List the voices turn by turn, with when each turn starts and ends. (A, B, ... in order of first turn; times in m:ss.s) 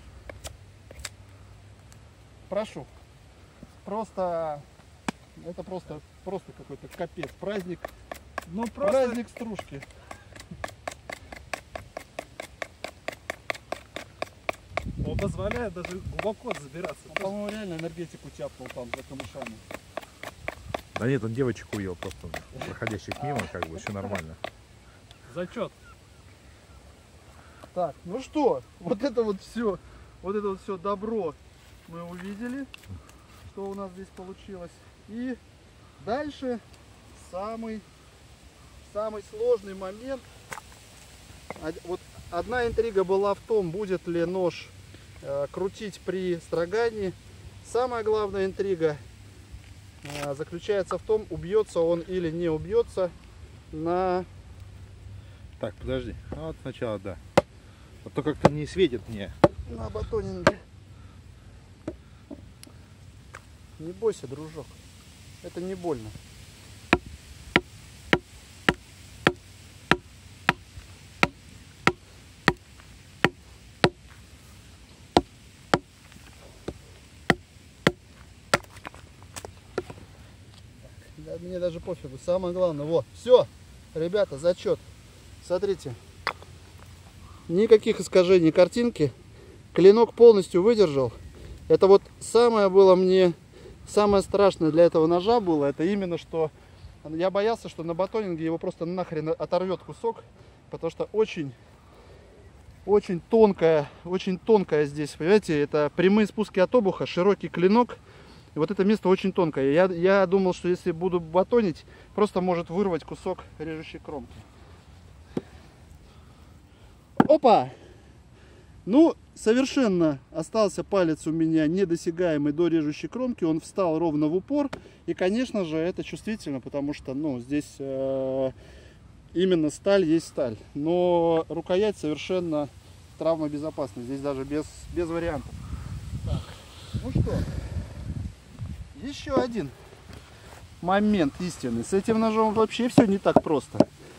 0:02.5-0:02.9 A
0:03.8-0:04.6 A
0:05.4-0:07.9 A
0:08.5-0:09.2 B
0:08.8-0:09.8 A
0:15.0-0:17.3 B
0:17.1-0:19.6 A
0:21.0-0:24.4 C
0:23.2-0:23.8 A
0:25.3-0:25.8 B
0:27.7-0:32.7 A
0:33.5-0:35.4 A
0:36.0-0:36.6 A
0:37.1-0:37.8 A
0:38.8-0:40.2 A
0:41.6-0:49.0 A
0:50.0-0:53.1 A
0:53.7-0:54.3 A
0:55.6-0:57.2 C
0:58.0-0:59.3 C
0:59.7-1:00.6 A
1:03.8-1:04.8 A
1:05.4-1:06.2 A
1:20.8-1:24.8 A
1:25.4-1:26.0 A
1:27.5-1:29.1 A
1:29.7-1:31.2 A
1:31.7-1:36.5 A
1:37.0-1:41.6 A
1:42.8-1:48.0 A
1:48.6-1:54.5 A
1:57.2-1:57.7 A
1:58.8-2:08.6 A
2:09.3-2:15.6 A
2:16.2-2:17.5 A
2:18.9-2:19.8 A
2:20.8-2:23.9 A